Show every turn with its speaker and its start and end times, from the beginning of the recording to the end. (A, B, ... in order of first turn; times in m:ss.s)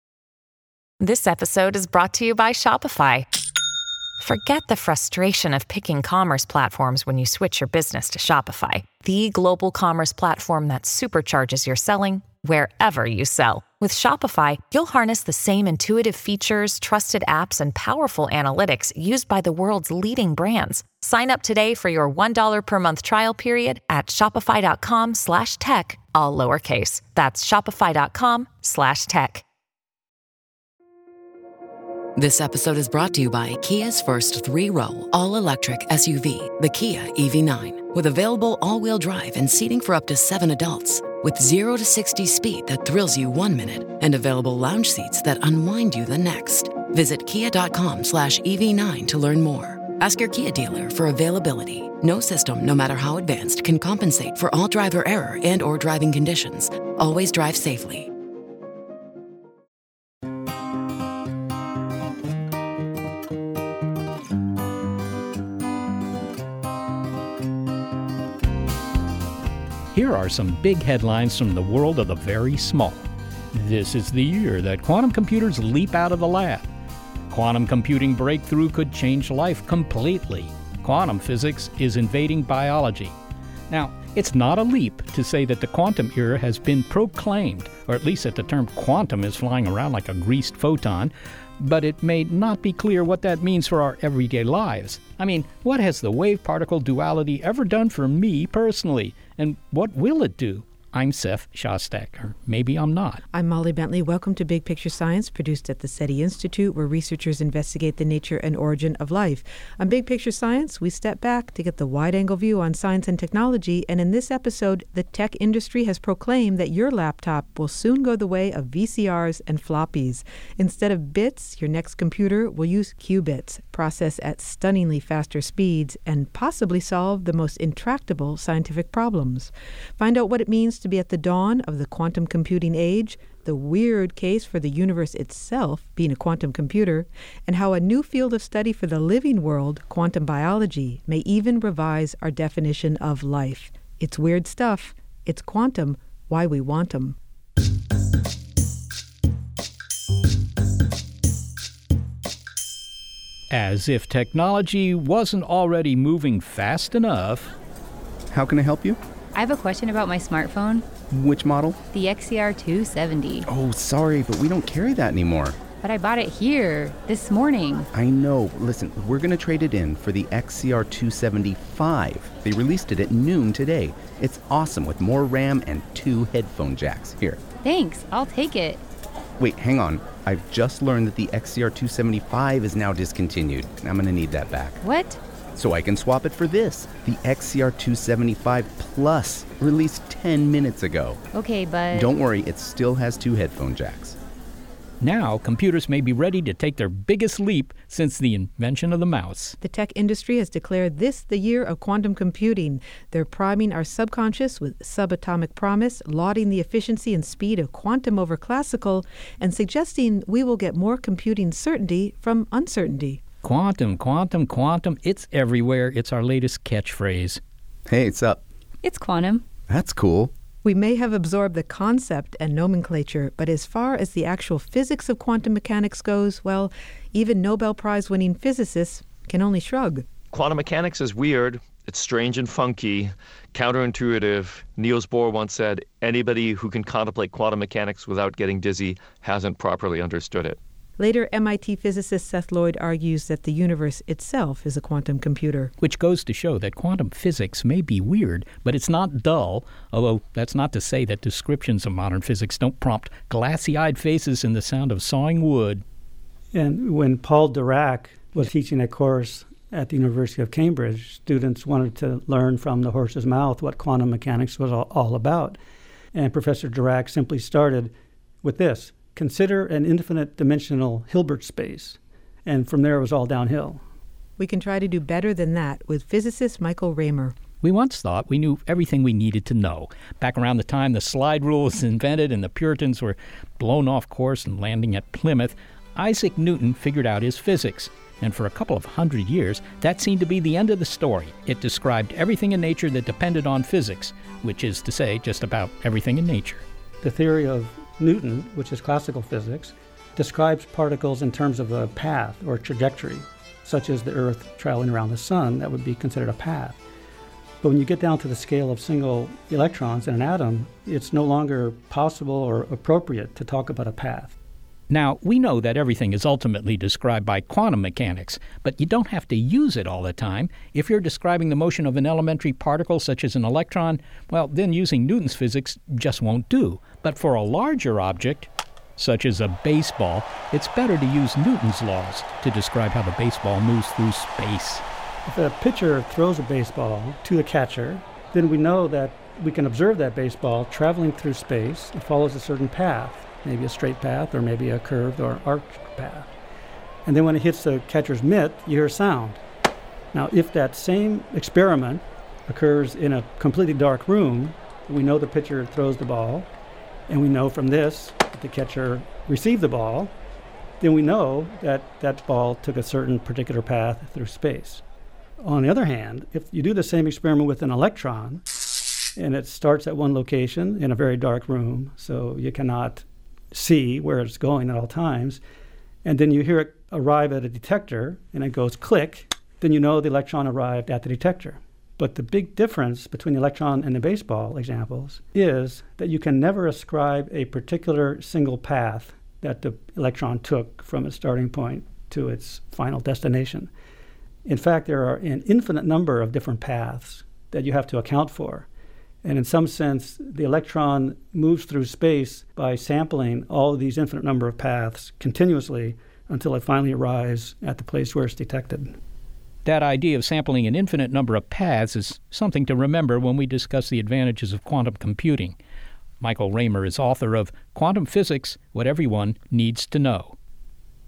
0:01.0-0:03.3 A
0:04.2-0:29.4 A
0:32.2-0:58.1 B
1:09.9-1:16.7 C
1:17.3-1:23.2 C
1:23.7-1:43.2 C
1:43.3-2:27.2 D
2:33.5-2:37.5 C
2:38.3-2:39.0 E
2:39.4-2:40.9 F
2:41.1-2:41.8 E
2:41.9-2:43.5 F
2:43.5-2:45.6 E
2:45.8-2:47.9 F
2:47.9-2:57.4 E
2:57.6-2:58.8 F
2:59.4-3:04.8 E
3:04.8-3:05.2 F
3:05.6-3:11.2 E
3:11.3-3:12.1 F
3:11.9-3:14.2 E
3:15.0-3:19.6 C
3:19.6-3:33.2 D
3:33.4-3:37.4 C
3:37.9-3:38.4 E
3:38.8-3:39.4 F
3:39.7-3:40.3 E
3:40.6-3:50.0 D
3:50.3-4:00.6 G
4:01.0-4:05.7 D
4:05.8-4:15.8 C
4:16.5-4:25.6 H
4:26.1-4:27.9 H
4:28.4-4:33.8 H
4:34.4-4:37.4 D
4:37.6-4:56.6 C
4:57.0-5:06.8 H
5:07.6-5:14.4 H
5:14.9-5:34.8 C
5:35.3-5:46.3 H
5:47.0-5:49.4 H
5:50.1-5:56.5 H
5:57.1-6:00.1 H
6:00.8-6:04.8 H
6:05.4-6:08.5 H
6:09.2-6:15.4 H
6:16.0-6:33.7 H
6:34.5-6:38.7 H
6:39.2-6:49.0 H
6:49.6-6:55.6 C
6:56.2-7:00.4 C